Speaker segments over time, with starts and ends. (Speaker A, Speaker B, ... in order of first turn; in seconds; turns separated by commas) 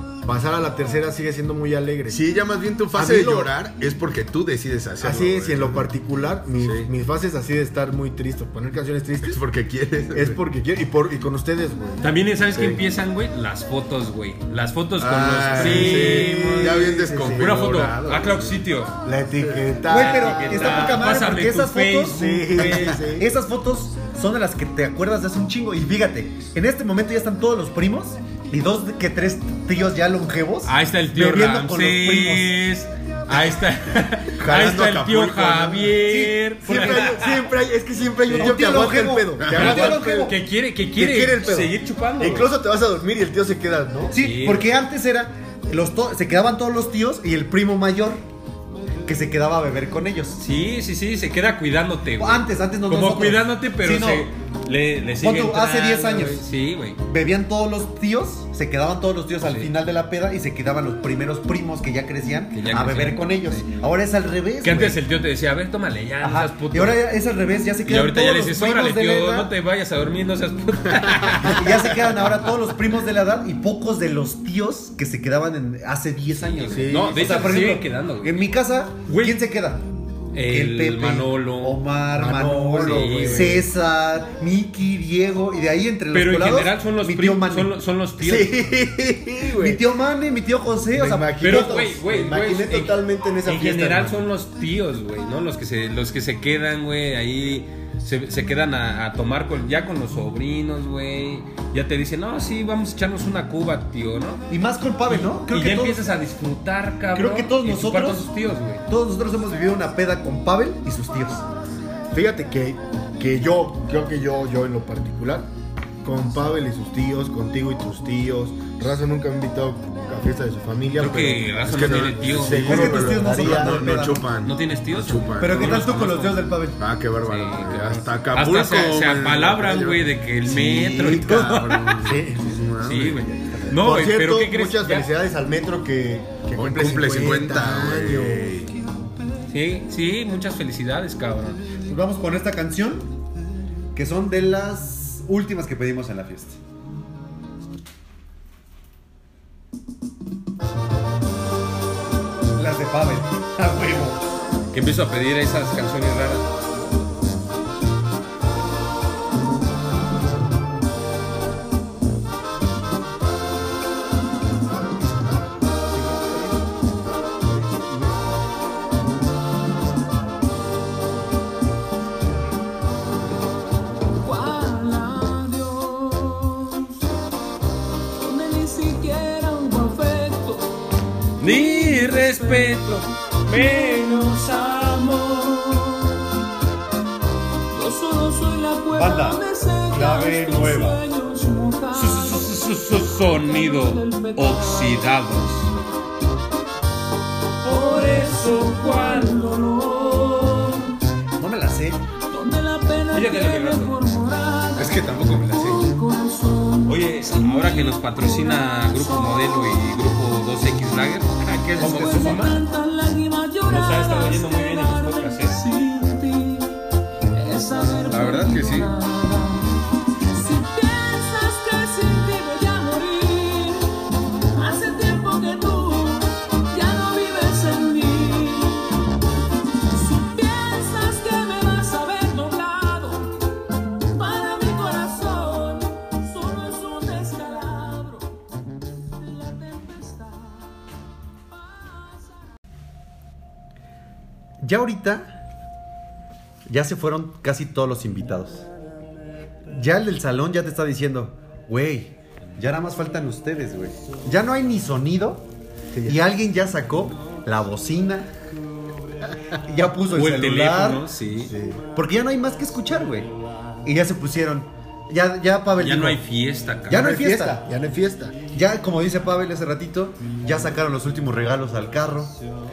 Speaker A: 0.2-2.2, Speaker B: 2.1-5.9, Speaker A: 2.9-3.5, Speaker A: 5.0-9.4, Speaker B: 6.6-6.9, Speaker B: 9.2-10.4, Speaker A: 10.1-12.8, Speaker C: 12.0-18.9, Speaker B: 15.0-18.6, Speaker A: 15.6-17.7, Speaker A: 19.0-21.2, Speaker D: 19.9-32.6, Speaker C: 19.9-23.0, Speaker A: 22.1-23.3, Speaker C: 30.7-37.5, Speaker B: 34.4-35.8, Speaker D: 35.9-37.0, Speaker A: 36.6-40.4, Speaker D: 38.3-40.4, Speaker B: 39.4-39.7, Speaker C: 39.5-42.5, Speaker A: 41.0-44.2, Speaker D: 44.1-48.2, Speaker C: 44.1-44.7, Speaker D: 49.0-50.4, Speaker C: 50.4-57.0, Speaker D: 52.2-54.3, Speaker D: 55.2-56.4, Speaker D: 57.1-65.0, Speaker C: 59.4-59.7, Speaker C: 62.5-63.7, Speaker C: 64.6-67.0, Speaker D: 66.2-69.5, Speaker C: 67.9-71.7, Speaker D: 71.4-79.9, Speaker C: 76.4-79.4, Speaker A: 76.7-77.4, Speaker C: 80.3-81.9, Speaker D: 80.4-87.8, Speaker A: 82.1-83.7, Speaker C: 82.7-83.7, Speaker C: 86.1-88.7, Speaker A: 88.2-89.8, Speaker D: 89.5-91.9, Speaker A: 90.9-94.2, Speaker C: 91.4-104.5, Speaker D: 104.5-106.1, Speaker C: 105.1-108.8, Speaker D: 107.1-108.3, Speaker D: 108.9-111.5, Speaker A: 112.1-115.5, Speaker A: 116.0-124.0, Speaker C: 121.0-122.8, Speaker B: 121.6-126.1, Speaker D: 122.5-124.3, Speaker C: 124.4-126.5, Speaker D: 125.4-126.8, Speaker B: 126.8-133.3, Speaker C: 127.2-132.1, Speaker A: 132.0-132.7, Speaker C: 132.8-135.1, Speaker A: 133.7-138.7, Speaker B: 136.5-138.7, Speaker C: 139.5-141.6, Speaker D: 141.8-143.1, Speaker D: 143.9-146.6, Speaker D: 152.6-154.3, Speaker C: 154.7-156.5, Speaker D: 165.9-166.6, Speaker D: 167.5-168.1, Speaker E: 174.2-176.9, Speaker E: 178.2-180.7, Speaker C: 181.4-185.3, Speaker E: 181.6-182.8, Speaker E: 183.6-184.8, Speaker E: 187.7-192.4, Speaker D: 188.9-191.0, Speaker C: 191.9-195.7, Speaker E: 193.5-194.8, Speaker E: 197.7-200.9, Speaker C: 197.7-199.3, Speaker D: 201.4-202.0, Speaker E: 202.3-205.1, Speaker C: 203.1-204.0, Speaker B: 204.7-205.9, Speaker E: 205.6-209.8, Speaker C: 206.8-212.6, Speaker D: 211.8-212.5, Speaker E: 212.2-216.7, Speaker C: 213.7-215.6, Speaker E: 217.3-219.6, Speaker B: 218.1-218.9, Speaker E: 220.4-223.8, Speaker E: 224.5-228.9, Speaker E: 230.0-233.3, Speaker E: 234.2-238.3, Speaker E: 239.3-240.5, Speaker D: 244.6-245.3, Speaker D: 246.7-248.7, Speaker D: 249.7-255.5, Speaker A: 255.9-256.2, Speaker D: 256.1-258.3, Speaker D: 259.7-261.1, Speaker C: 260.1-261.5, Speaker A: 261.5-261.8, Speaker D: 261.9-263.3, Speaker D: 263.8-266.2, Speaker C: 265.8-267.2, Speaker D: 266.9-267.6, Speaker A: 266.9-268.4, Speaker D: 268.5-272.4